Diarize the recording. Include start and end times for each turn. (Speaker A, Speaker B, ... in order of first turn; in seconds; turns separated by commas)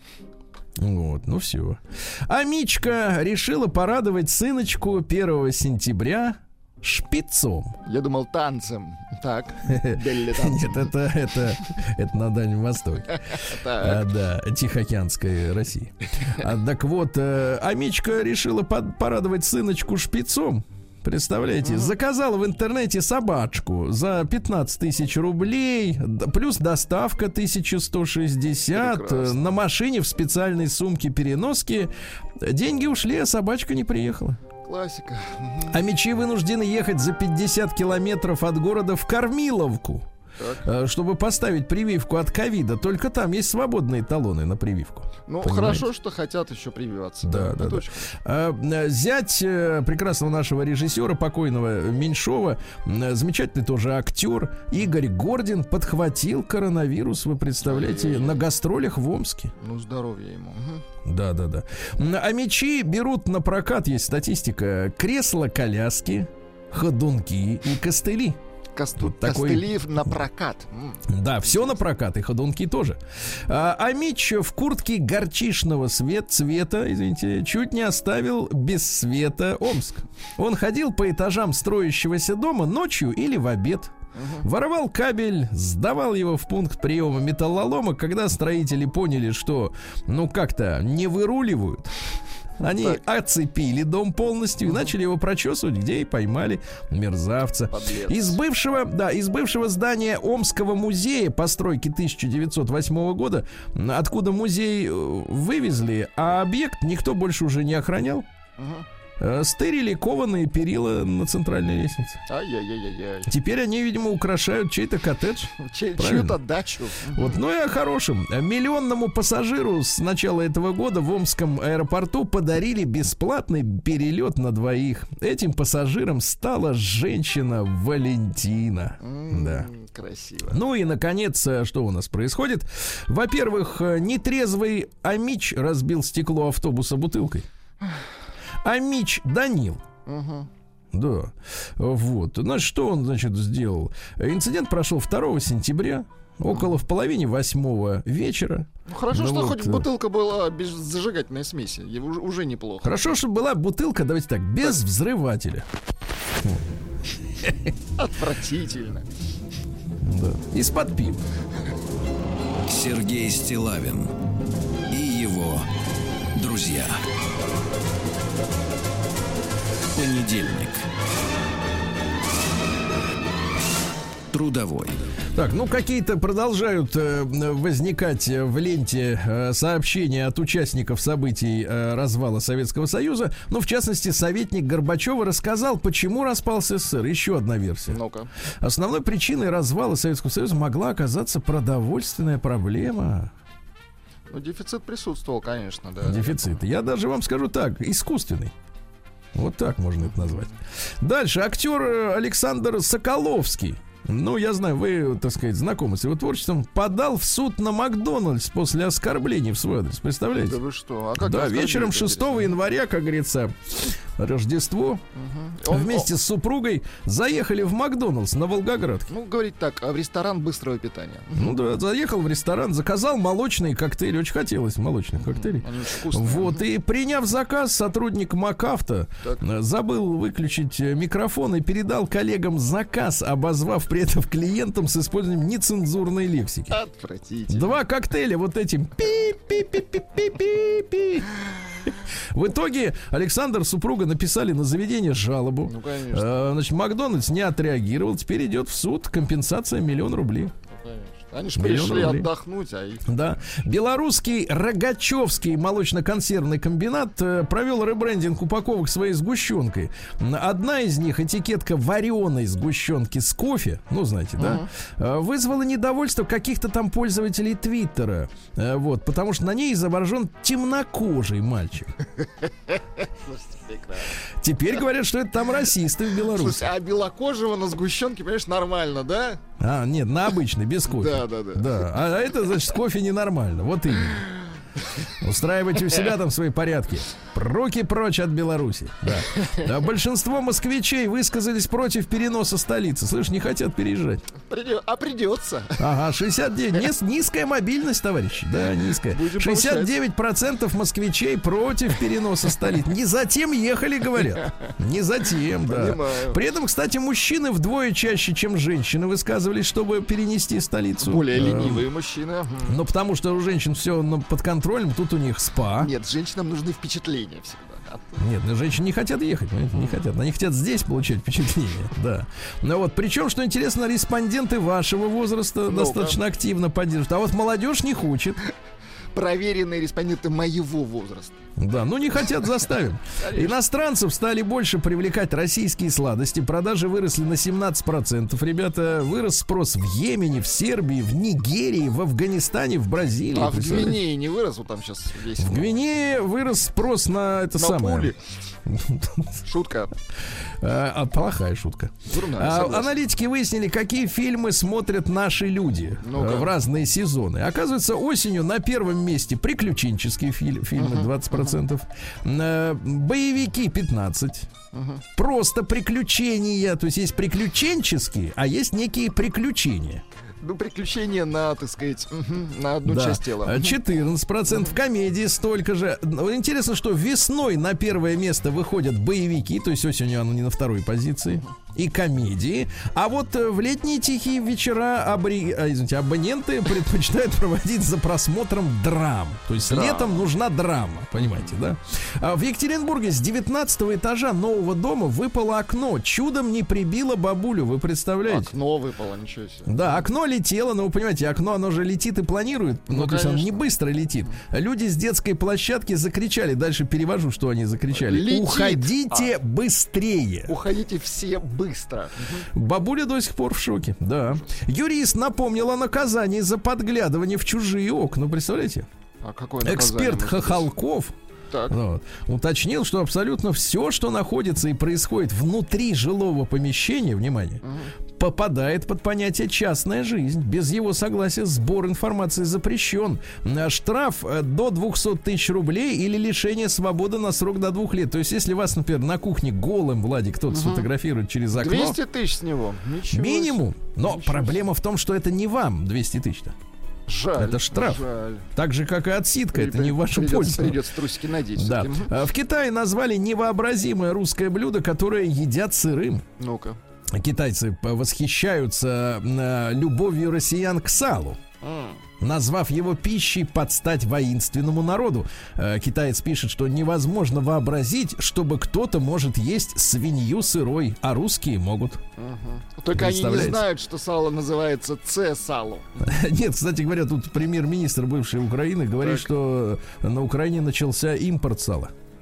Speaker A: 0.8-7.8, Speaker B: 7.8-10.9, Speaker A: 9.7-34.4, Speaker B: 13.3-14.1, Speaker B: 21.6-21.9, Speaker B: 28.7-29.6, Speaker B: 34.6-35.8, Speaker A: 35.7-40.1, Speaker B: 40.4-40.6, Speaker A: 40.6-45.9, Speaker B: 45.3-48.1, Speaker A: 47.2-59.5, Speaker B: 57.6-58.4, Speaker B: 59.6-60.9, Speaker A: 61.0-68.4, Speaker B: 68.7-71.8, Speaker A: 69.0-69.7, Speaker A: 71.1-92.0, Speaker B: 84.1-84.5, Speaker A: 92.6-108.3, Speaker B: 92.6-93.0, Speaker B: 97.7-98.4, Speaker B: 108.6-108.8, Speaker A: 109.2-112.2, Speaker B: 112.3-113.3, Speaker A: 113.3-116.4, Speaker B: 115.6-117.4, Speaker A: 117.1-129.7, Speaker B: 129.0-130.6, Speaker A: 130.5-137.5, Speaker A: 138.6-139.8, Speaker B: 140.1-140.5, Speaker A: 140.9-149.9, Speaker B: 148.8-153.1, Speaker A: 152.8-155.7, Speaker B: 158.0-159.1, Speaker A: 160.0-161.2, Speaker C: 162.6-164.1, Speaker C: 164.9-165.7, Speaker C: 166.3-167.0, Speaker C: 169.9-170.8, Speaker C: 174.3-175.0, Speaker A: 175.3-188.0, Speaker B: 187.9-188.3, Speaker A: 188.6-193.3, Speaker B: 194.3-196.5, Speaker A: 196.0-198.5, Speaker A: 199.3-210.6, Speaker B: 200.1-200.5, Speaker B: 210.3-212.5, Speaker A: 211.2-215.0, Speaker B: 215.1-216.1, Speaker A: 215.7-219.1, Speaker B: 219.1-221.5, Speaker A: 221.3-236.8, Speaker B: 225.3-226.6, Speaker B: 236.7-237.8, Speaker A: 237.5-241.3, Speaker A: 242.3-250.5, Speaker B: 245.6-246.4, Speaker B: 250.7-253.1, Speaker A: 251.6-252.3, Speaker A: 253.1-271.9, Speaker B: 264.4-264.7, Speaker B: 272.2-274.2, Speaker A: 274.4-276.7, Speaker B: 276.3-279.4, Speaker A: 279.6-284.2, Speaker B: 280.9-281.8, Speaker A: 285.2-294.2, Speaker B: 289.3-289.6, Speaker B: 294.4-295.9, Speaker A: 295.8-311.9, Speaker B: 298.9-299.9, Speaker B: 304.4-304.7, Speaker B: 305.6-306.4, Speaker B: 311.0-312.8, Speaker A: 312.6-315.9, Speaker B: 315.8-318.2, Speaker A: 318.2-328.4, Speaker B: 319.7-320.0, Speaker B: 325.6-326.2, Speaker B: 329.1-331.4, Speaker A: 331.6-344.0, Speaker B: 333.1-333.6, Speaker B: 343.3-345.7, Speaker A: 345.4-348.1, Speaker B: 347.6-348.2, Speaker A: 348.6-349.4, Speaker B: 349.4-349.9, Speaker A: 350.6-364.5, Speaker B: 352.1-352.9, Speaker B: 356.0-356.5, Speaker B: 360.8-361.6, Speaker B: 364.7-365.0, Speaker A: 365.1-370.0, Speaker B: 370.4-373.8, Speaker A: 372.8-398.5, Speaker B: 374.5-374.8, Speaker B: 389.6-390.3, Speaker B: 391.2-391.5, Speaker B: 398.2-400.0, Speaker A: 399.7-410.5, Speaker B: 402.9-403.6, Speaker B: 407.9-409.3, Speaker B: 410.5-412.5, Speaker A: 412.5-418.9, Speaker B: 419.2-420.7, Speaker A: 419.6-421.1, Speaker B: 421.5-421.8, Speaker A: 421.7-427.6, Speaker B: 427.6-427.9, Speaker A: 428.2-442.0, Speaker B: 440.5-440.9, Speaker B: 441.5-444.5, Speaker A: 443.1-446.5, Speaker B: 447.1-448.5, Speaker A: 447.4-450.8, Speaker B: 449.5-452.1, Speaker A: 451.6-456.2, Speaker B: 456.4-456.8, Speaker A: 457.1-461.4, Speaker B: 461.6-462.0, Speaker A: 462.2-472.0, Speaker B: 472.2-476.1, Speaker A: 472.9-473.6, Speaker A: 476.0-481.9, Speaker B: 479.0-479.3